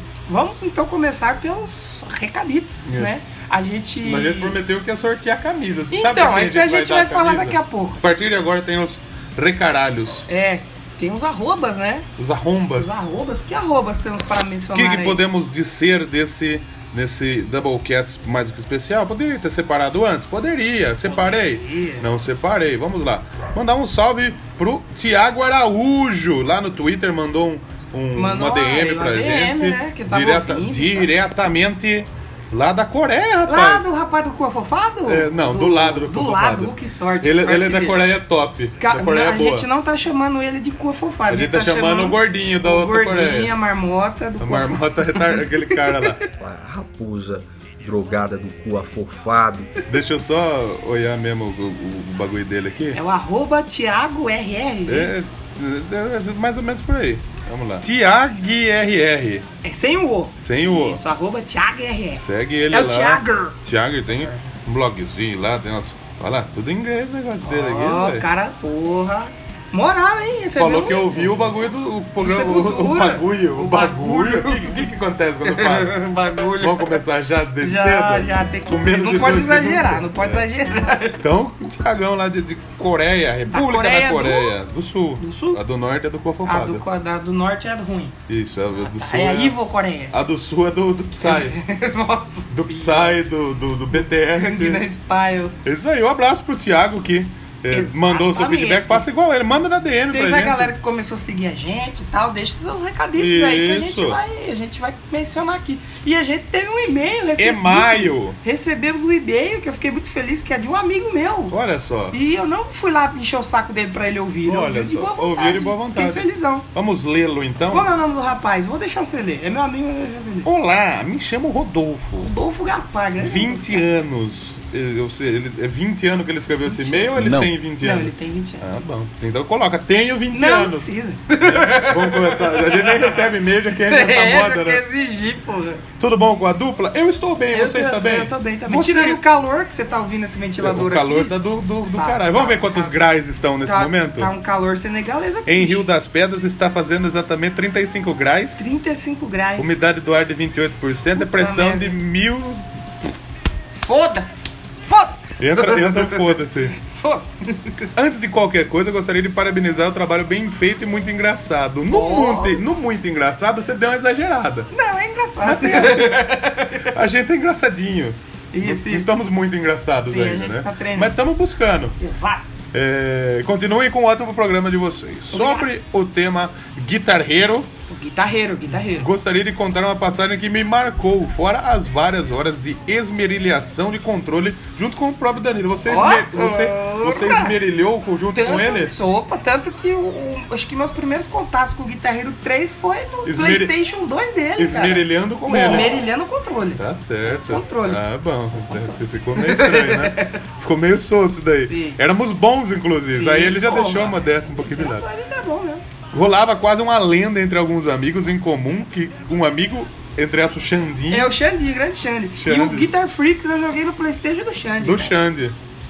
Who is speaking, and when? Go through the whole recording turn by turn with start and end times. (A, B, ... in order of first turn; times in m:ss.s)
0:00.3-0:04.6 A
0:02.8-0:03.1 B
0:04.0-0:10.3 B
0:05.9-0:08.0 A
0:10.3-0:12.1 A
0:12.2-0:13.0 B
0:12.7-0:15.2 A
0:14.7-0:33.9 B
0:21.1-0:22.0 A
0:28.2-0:31.1 A
0:33.4-0:38.0 A
0:35.0-0:39.7 B
0:38.8-0:46.2 A
0:41.3-0:43.5 B
0:44.4-0:46.2 B
0:46.4-0:49.8 C
0:49.9-0:53.0 B
0:52.9-0:55.2 A
0:54.8-0:59.4 B
0:59.6-1:03.6 A
1:00.4-1:01.0 B
1:02.2-1:08.2 B
1:07.4-1:11.5 A
1:10.6-1:16.0 B
1:12.2-1:14.9 A
1:15.4-1:17.0 A
1:16.6-1:20.5 B
1:17.6-1:21.2 A
1:21.2-1:26.8 B
1:23.5-1:24.5 A
1:25.2-1:25.6 A
1:26.4-1:28.2 A
1:28.3-1:29.6 B
1:28.8-1:30.2 A
1:30.1-1:31.6 B
1:31.2-1:33.2 A
1:32.5-1:34.8 B
1:33.9-1:35.6 A
1:35.6-1:40.7 B
1:37.7-1:39.0 A
1:40.1-1:51.6 A
1:43.2-1:44.2 B
1:47.4-1:48.4 B
1:51.5-1:52.2 B
1:52.1-1:56.6 A
1:54.4-1:58.0 B
1:57.7-2:00.5 A
2:00.4-2:02.3 B
2:02.2-2:03.8 A
2:03.2-2:14.8 B
2:06.6-2:07.2 A
2:07.2-2:07.5 C
2:07.8-2:08.6 A
2:10.3-2:13.2 A
2:13.8-2:15.8 A
2:16.0-2:19.2 B
2:17.5-2:21.3 A
2:20.6-2:24.3 B
2:21.9-2:22.9 A
2:23.6-2:25.8 A
2:25.4-2:28.6 B
2:28.6-2:29.8 A
2:29.6-2:32.8 B
2:31.1-2:32.0 A
2:33.7-2:37.9 A
2:35.4-2:36.8 B
2:37.9-2:44.7 B
2:41.9-2:42.6 A
2:44.7-2:46.8 A
2:45.4-2:52.0 B
2:48.5-2:49.1 A
2:50.0-2:51.2 A
2:52.0-2:52.4 A
2:52.7-2:57.7 B
2:55.3-2:55.7 A
2:57.9-2:59.1 A
2:58.9-3:08.9 B
3:05.9-3:07.6 A
3:08.3-3:16.8 A
3:13.2-3:13.7 B
3:14.6-3:16.0 B
3:16.8-3:25.0 B
3:17.4-3:18.0 A
3:19.4-3:20.4 A
3:21.7-3:22.0 A
3:23.1-3:25.8 A
3:26.1-3:31.3 B
3:31.1-3:35.2 A
3:32.4-3:32.9 B
3:34.8-3:35.6 B